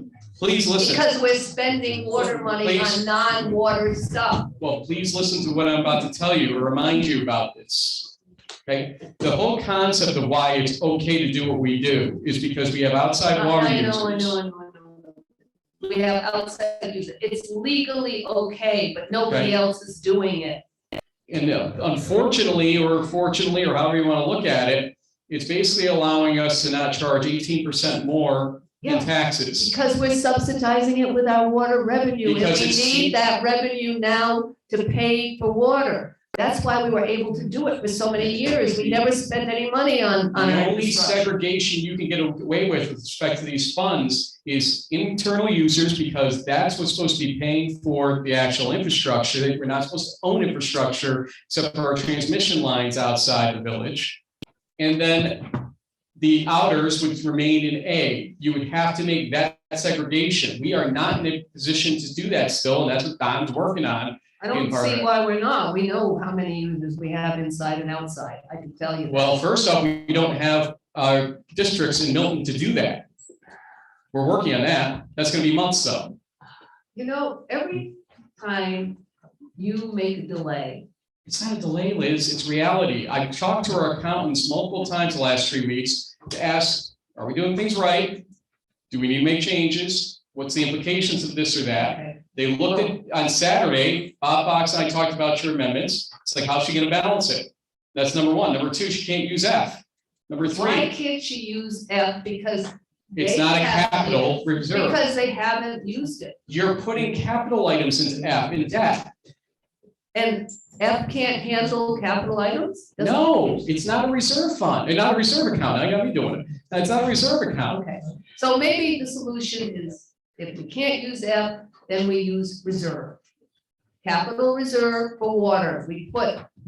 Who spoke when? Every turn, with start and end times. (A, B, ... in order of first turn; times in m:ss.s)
0:00.4-0:01.0 A
0:00.8-0:04.5 B
0:02.6-0:03.1 A
0:04.6-0:08.1 A
0:08.7-0:14.4 A
0:13.3-0:15.2 B
0:15.8-0:20.6 B
0:21.3-0:29.7 A
0:29.6-0:41.2 B
0:32.2-0:33.2 A
0:40.3-0:54.2 A
0:54.8-0:55.6 A
0:56.2-1:05.1 A
1:04.4-1:09.4 B
1:09.1-1:13.0 A
1:14.1-1:16.2 A
1:17.0-1:19.0 B
1:19.6-1:20.8 B
1:21.3-1:28.2 A
1:28.9-1:40.9 A
1:31.8-1:32.9 B
1:40.5-1:46.4 B
1:43.1-1:45.0 A
1:46.5-1:49.1 A
1:50.1-1:53.3 B
1:53.0-1:57.8 A
1:57.7-2:03.2 B
2:04.0-2:06.5 B